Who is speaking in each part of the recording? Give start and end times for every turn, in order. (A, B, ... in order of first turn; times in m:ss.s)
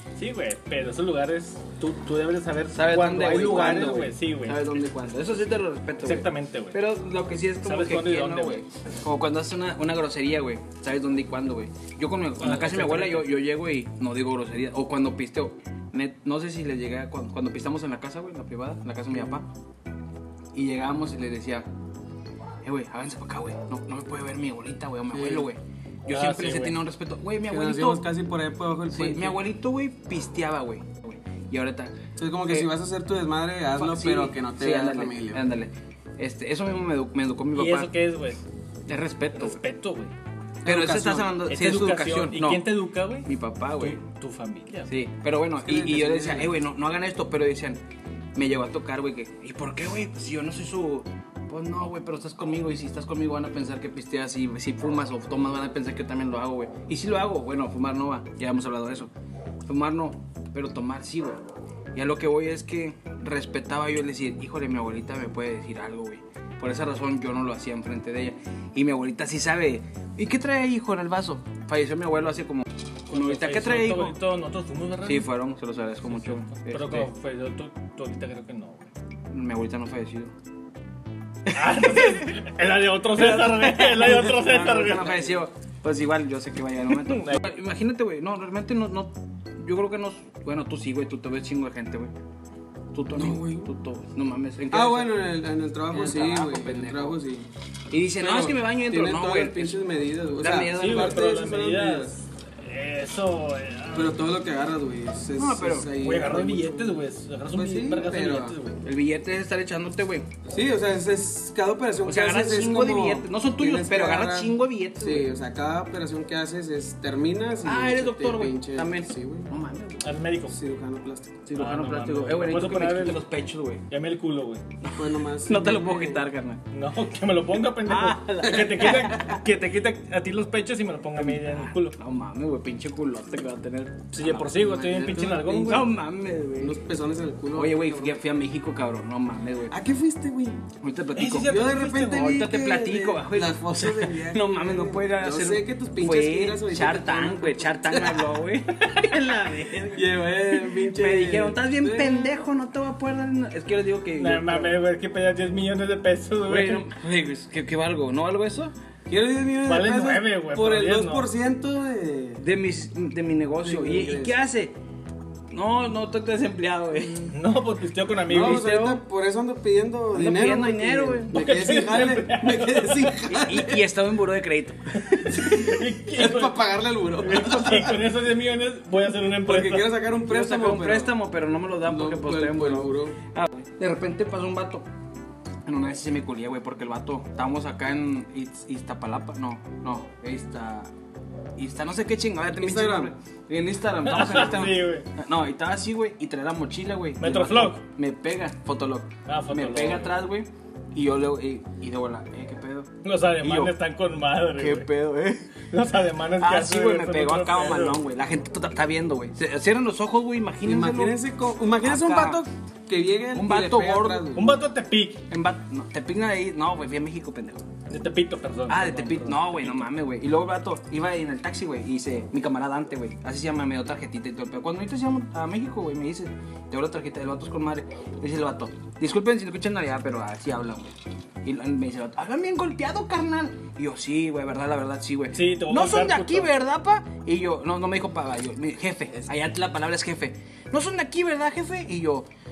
0:00.2-0:04.8 A
0:02.7-0:19.5 B
0:06.0-0:06.8 A
0:07.6-0:08.6 A
0:12.4-0:13.3 A
0:20.5-0:21.7 B
0:22.6-0:28.1 B
0:25.1-0:25.5 C
0:26.1-0:26.8 A
0:27.5-0:29.4 C
0:28.9-0:32.7 B
0:32.2-0:35.4 C
0:33.8-0:37.9 B
0:37.5-0:38.4 A
0:38.9-0:39.6 B
0:39.3-0:40.1 A
0:40.6-0:41.3 C
0:40.6-0:42.7 B
0:41.5-0:44.9 A
0:43.2-0:44.0 B
0:44.9-0:47.8 B
0:45.6-0:46.5 C
0:48.4-0:59.1 B
0:59.6-1:01.4 B
1:01.9-1:14.2 B
1:13.1-1:15.3 A
1:15.0-1:17.1 B
1:16.1-1:18.9 A
1:19.3-1:20.3 B
1:21.4-1:22.5 B
1:21.5-1:25.2 A
1:23.1-1:32.1 B
1:26.9-1:27.4 A
1:32.9-1:35.2 B
1:33.1-1:33.7 C
1:34.7-1:37.5 C
1:35.9-1:37.2 B
1:37.9-1:39.8 B
1:38.2-1:42.1 C
1:40.4-1:41.3 B
1:40.7-1:44.2 A
1:43.9-1:48.6 C
1:45.4-1:45.9 B
1:46.0-1:48.8 A
1:48.8-1:50.3 B
1:50.5-1:59.5 C
1:52.0-1:55.3 B
1:57.6-2:00.0 B
2:00.0-2:00.6 A
2:00.5-2:01.4 C
2:01.5-2:03.8 B
2:01.6-2:03.2 A
2:03.9-2:04.6 A
2:04.8-2:06.6 B
2:04.9-2:06.2 C
2:06.7-2:12.0 A
2:07.8-2:09.4 B
2:08.5-2:09.0 C
2:11.2-2:15.1 B
2:14.1-2:15.9 A
2:14.8-2:15.8 C
2:15.7-2:16.8 B
2:16.6-2:18.2 C
2:17.5-2:19.8 B
2:19.7-2:20.6 C
2:20.8-2:34.8 B
2:21.2-2:22.4 A
2:21.4-2:28.4 C
2:28.9-2:29.2 A
2:29.9-2:32.4 C
2:34.2-2:36.9 A
2:36.5-2:38.7 B
2:39.1-2:42.4 C
2:39.6-2:41.3 A
2:42.4-2:44.8 B
2:43.6-2:44.4 C
2:45.5-2:47.4 B
2:47.3-2:48.7 A
2:48.3-2:53.9 C
2:48.3-2:49.0 B
2:50.1-2:51.4 B
2:51.3-2:53.1 A
2:53.3-2:55.8 B
2:55.0-2:56.6 A
2:55.5-2:58.0 C
2:57.2-2:59.9 A
2:59.4-3:01.2 C
3:00.3-3:04.8 B
3:01.8-3:03.2 C
3:05.6-3:10.9 B
3:11.6-3:23.8 B
3:12.6-3:13.1 C
3:14.0-3:15.1 A
3:17.2-3:17.8 A
3:19.3-3:20.2 A
3:23.0-3:24.9 A
3:24.6-3:25.6 B
3:25.7-3:28.0 A
3:26.4-3:31.2 B
3:30.6-3:34.6 C
3:31.8-3:32.4 B
3:33.3-3:34.4 B
3:34.4-3:35.2 A
3:35.3-3:37.6 B
3:37.9-3:39.9 A
3:38.7-4:02.3 B
3:55.3-3:56.5 A